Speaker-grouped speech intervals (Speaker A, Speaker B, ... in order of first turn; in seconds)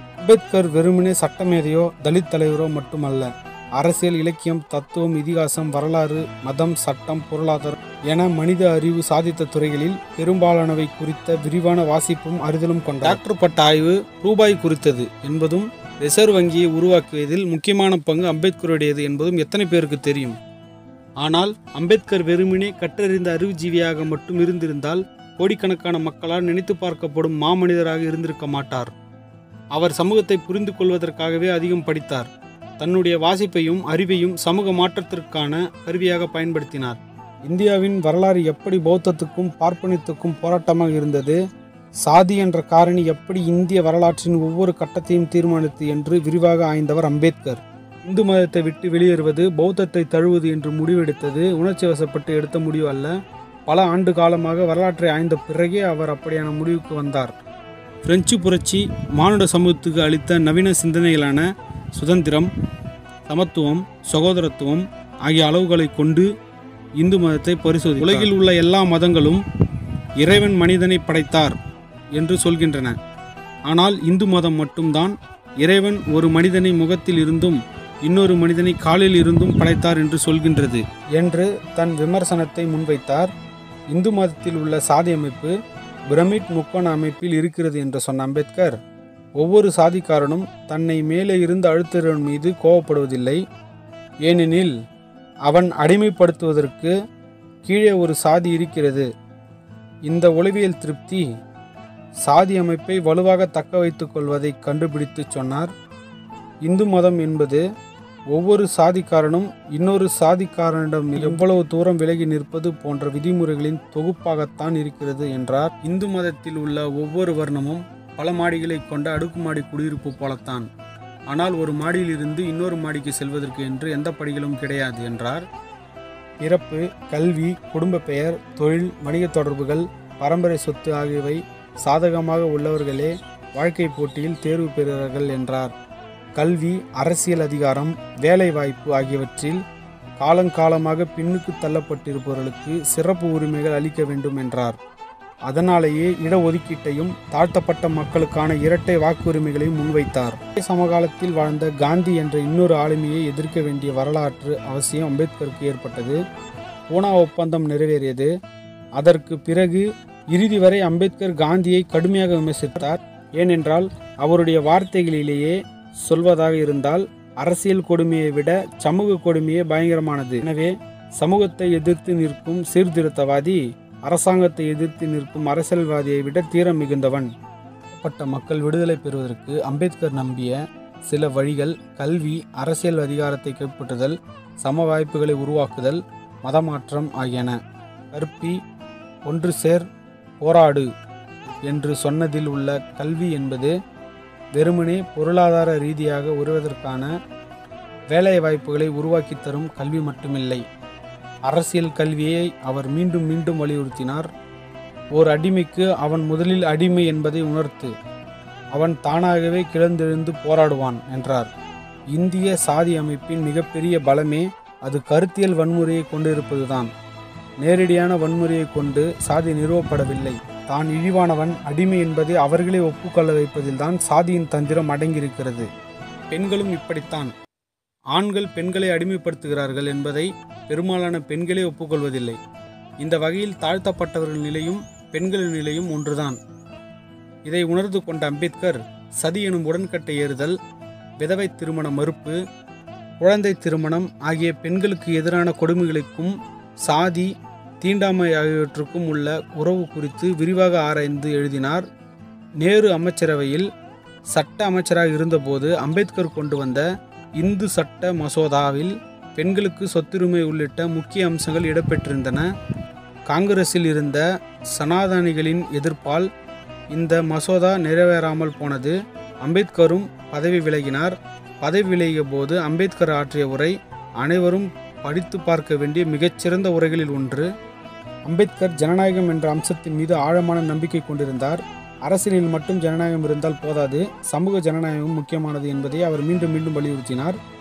Speaker A: 0.2-20.4, 21.2-28.9, 29.7-41.4, 42.0-53.1, 53.7-57.3, 58.0-61.4, 62.0-62.5, 63.3-66.3, 67.0-69.4, 70.2-71.6, 72.2-73.0, 73.7-83.3, 83.9-85.5, 86.1-88.8, 89.4-93.4, 94.2-94.8, 95.5-96.9, 97.7-99.1, 100.1-101.2, 102.2-105.7, 106.6-107.6, 108.3-120.7, 121.3-125.5, 126.4-135.7, 136.4-139.6, 140.2-144.8, 145.5-156.2, 156.9-158.3, 159.0-177.3, 177.9-187.6, 188.1-188.6, 189.3-189.8, 190.4-190.9, 191.7-193.7, 194.6-197.1, 198.1-200.6, 201.5-204.3, 205.1-207.9, 208.7-211.5, 212.1-216.9, 217.6-225.7, 226.3-227.3, 228.1-232.4, 233.0-236.4, 237.5-240.5, 241.2-242.4, 243.2-246.3, 246.8-251.8, 252.6-253.7, 254.3-256.9, 257.4-262.5, 263.3-264.2, 264.7-266.3, 266.9-277.5, 278.3-287.4